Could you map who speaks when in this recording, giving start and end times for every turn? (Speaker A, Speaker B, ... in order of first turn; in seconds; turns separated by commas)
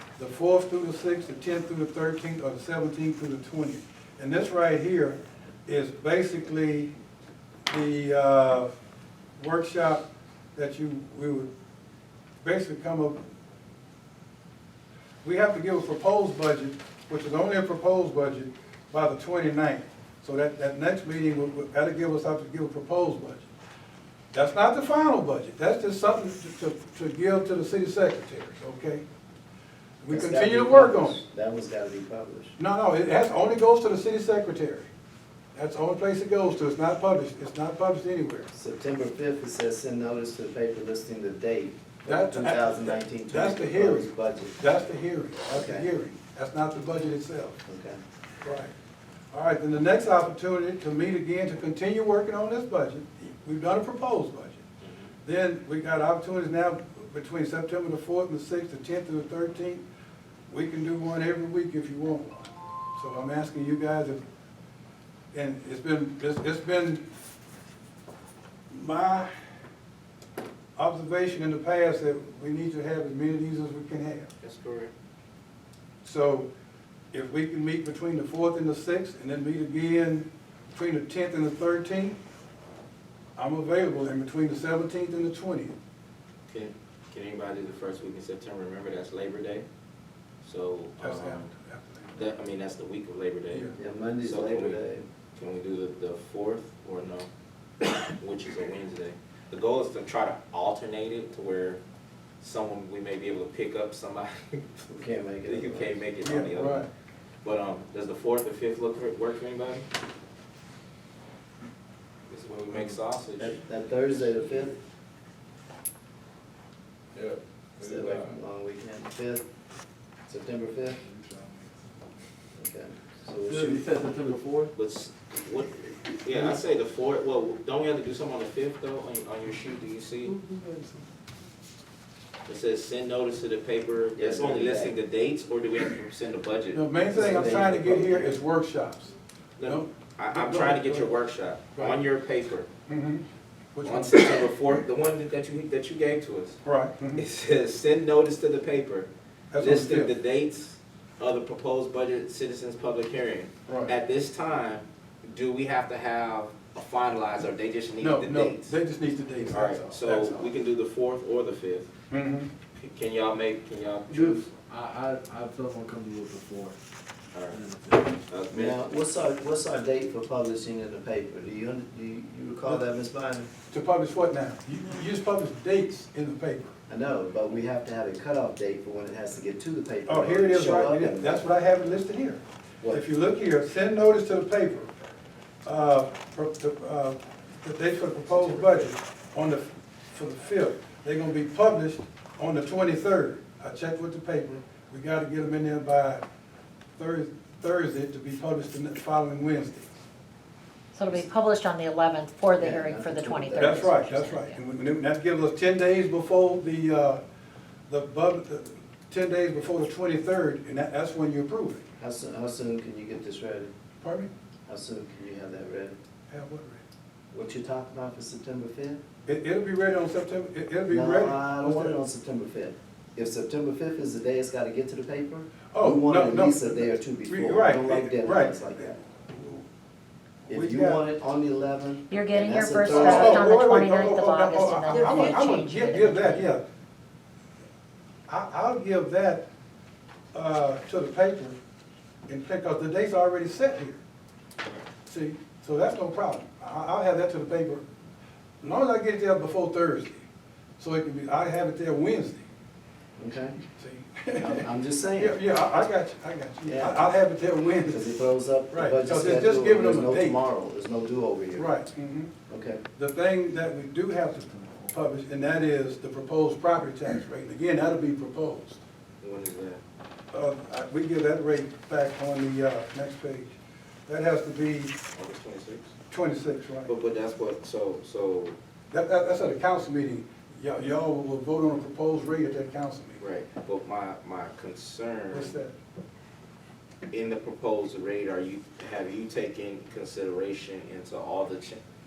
Speaker A: 0.2-6.9, Speaker A: 7.7-8.7, Speaker A: 9.4-11.5, Speaker A: 12.4-13.2, Speaker A: 15.2-23.5, Speaker A: 24.3-29.0, Speaker A: 30.0-31.2, Speaker B: 30.1-32.6, Speaker A: 32.6-34.9, Speaker A: 35.5-38.5, Speaker B: 38.5-44.6, Speaker A: 42.1-47.6, Speaker B: 45.5-45.9, Speaker B: 47.7-48.0, Speaker A: 48.4-48.7, Speaker A: 49.3-54.6, Speaker A: 55.2-59.8, Speaker A: 60.5-64.2, Speaker A: 65.3-67.0, Speaker A: 68.7-69.3, Speaker A: 70.8-74.3, Speaker C: 74.4-74.9, Speaker A: 76.0-76.5, Speaker A: 77.1-82.2, Speaker A: 83.4-85.8, Speaker C: 86.5-89.7, Speaker C: 90.4-91.5, Speaker A: 91.0-92.2, Speaker C: 92.2-93.7, Speaker B: 93.8-95.0, Speaker C: 94.2-94.8, Speaker C: 95.4-97.3, Speaker C: 97.8-101.8, Speaker C: 102.4-104.8, Speaker B: 104.9-106.0, Speaker C: 105.5-106.9, Speaker A: 106.2-106.9, Speaker C: 107.4-109.9, Speaker C: 112.3-113.6, Speaker B: 113.4-114.8, Speaker D: 117.1-118.4, Speaker B: 117.8-119.4, Speaker B: 120.3-121.0, Speaker D: 121.0-121.8, Speaker B: 122.6-123.9, Speaker D: 123.5-124.7, Speaker C: 124.8-130.4, Speaker A: 130.3-131.0, Speaker C: 132.5-137.5, Speaker B: 134.2-135.0, Speaker A: 136.7-139.1, Speaker B: 137.1-138.4, Speaker C: 139.6-142.7, Speaker A: 139.7-141.2, Speaker A: 141.8-142.0, Speaker A: 142.9-143.2, Speaker A: 143.8-144.5, Speaker C: 143.8-146.6, Speaker A: 146.7-147.2, Speaker C: 147.2-158.8, Speaker A: 149.5-150.2, Speaker A: 153.7-153.9, Speaker A: 158.0-160.5, Speaker C: 159.5-161.9, Speaker A: 162.1-162.5, Speaker C: 162.8-164.5, Speaker D: 164.1-166.8, Speaker C: 167.3-167.7, Speaker D: 167.5-168.2, Speaker C: 168.3-168.8, Speaker B: 168.5-173.5, Speaker A: 173.7-176.8, Speaker B: 176.9-181.4, Speaker A: 180.1-182.4, Speaker A: 182.9-184.9, Speaker A: 185.6-196.2, Speaker A: 197.0-200.0, Speaker E: 200.9-204.6, Speaker B: 202.6-203.8, Speaker A: 203.6-207.2, Speaker A: 207.9-211.8, Speaker B: 212.0-213.7, Speaker A: 214.0-214.3, Speaker B: 214.7-216.0, Speaker A: 216.3-216.8, Speaker B: 217.3-219.0, Speaker A: 219.3-222.0, Speaker B: 220.9-229.0, Speaker A: 225.7-229.6, Speaker B: 230.5-233.4, Speaker A: 230.5-231.0, Speaker E: 232.1-236.5, Speaker A: 232.9-236.6, Speaker A: 238.3-239.4, Speaker A: 240.3-241.6, Speaker A: 242.3-244.0, Speaker A: 245.1-247.8, Speaker A: 248.6-250.2, Speaker A: 250.8-252.4, Speaker B: 253.2-253.6, Speaker A: 253.8-254.6, Speaker B: 254.4-255.4, Speaker A: 255.2-258.1, Speaker B: 256.6-257.0, Speaker B: 257.9-261.8, Speaker A: 258.7-260.4, Speaker A: 261.6-262.3, Speaker B: 262.5-262.8, Speaker A: 263.0-268.8, Speaker D: 264.5-264.9, Speaker C: 269.2-269.8, Speaker A: 270.3-273.6, Speaker A: 274.1-274.9, Speaker C: 275.1-275.9, Speaker A: 276.1-276.9, Speaker C: 276.9-278.6, Speaker A: 278.9-283.2, Speaker C: 283.2-285.6, Speaker A: 285.3-285.7, Speaker C: 287.1-291.8